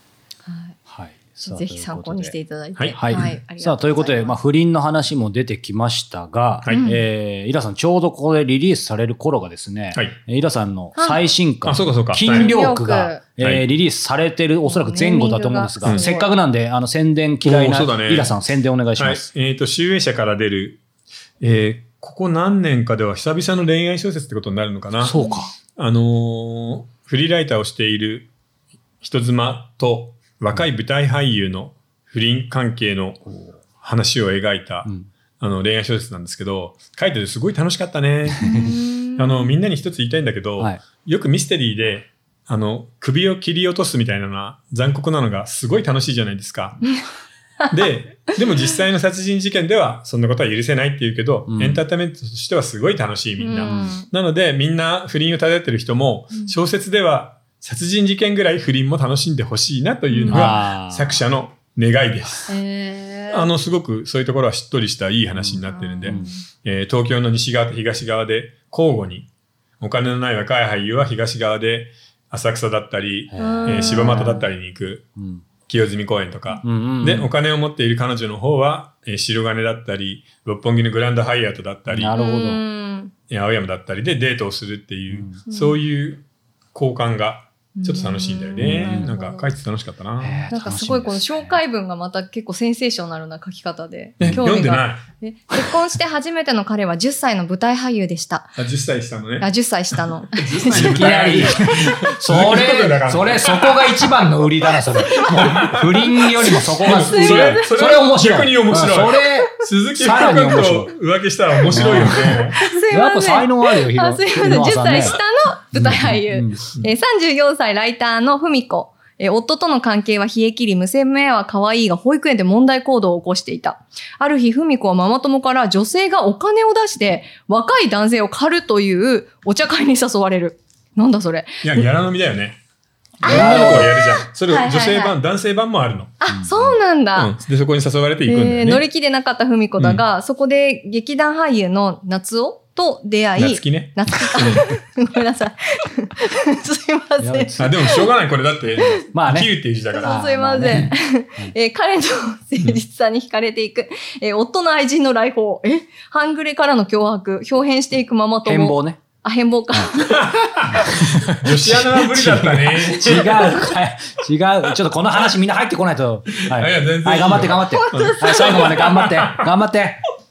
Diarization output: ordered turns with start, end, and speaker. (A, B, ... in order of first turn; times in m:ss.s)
0:00.4-0:00.8 A
0:00.8-0:02.3 B
0:01.4-0:04.4 A
0:02.8-0:03.4 C
0:03.0-0:19.3 B
0:06.7-0:07.0 A
0:11.0-0:11.2 A
0:11.6-0:12.5 C
0:12.2-0:13.2 A
0:14.6-0:16.3 A
0:17.4-0:18.4 C
0:19.0-0:20.8 C
0:21.4-0:25.2 C
0:25.0-0:25.5 B
0:25.1-0:25.5 A
0:25.7-0:28.3 C
0:29.0-0:33.2 C
0:33.2-0:33.5 B
0:33.8-0:34.9 C
0:35.4-0:38.6 C
0:38.3-0:38.7 B
0:38.4-0:39.5 A
0:39.2-0:46.8 C
0:47.7-1:02.6 C
0:51.5-0:51.8 B
0:53.4-0:54.1 A
0:53.6-0:54.0 B
1:00.1-1:00.6 A
1:00.3-1:01.2 B
1:02.5-1:03.5 A
1:03.3-1:09.3 C
1:05.4-1:06.3 B
1:05.7-1:06.4 A
1:09.8-1:15.1 C
1:13.3-1:14.5 B
1:13.4-1:14.4 A
1:15.2-1:15.4 B
1:15.7-1:22.1 C
1:16.6-1:17.3 B
1:21.9-1:22.6 B
1:22.1-1:23.1 A
1:23.3-1:30.5 C
1:25.1-1:25.4 B
1:25.5-1:25.8 A
1:27.8-1:29.5 A
1:28.6-1:29.1 B
1:30.2-1:31.6 B
1:30.5-1:38.6 A
1:34.2-1:35.0 C
1:34.2-1:34.4 B
1:38.6-1:39.5 C
1:39.4-1:41.3 A
1:40.3-1:44.1 C
1:40.7-1:50.9 B
1:45.0-1:52.6 C
1:46.8-1:47.7 A
1:51.7-1:55.2 B
1:51.7-2:11.9 A
1:55.7-1:56.6 B
2:11.6-2:12.6 C
2:13.2-2:15.2 A
2:13.2-2:16.1 C
2:13.2-2:13.9 B
2:16.2-2:17.3 A
2:16.3-2:16.8 B
2:17.1-2:18.8 C
2:18.2-2:28.1 A
2:19.8-2:20.0 C
2:23.4-2:24.6 C
2:27.2-2:27.8 B
2:27.6-2:30.2 C
2:28.8-2:29.0 A
2:29.1-2:31.5 B
2:29.9-2:40.3 A
2:38.4-2:39.0 B
2:40.1-2:43.7 C
2:40.7-2:50.0 B
2:46.4-2:49.5 C
2:47.8-2:48.8 A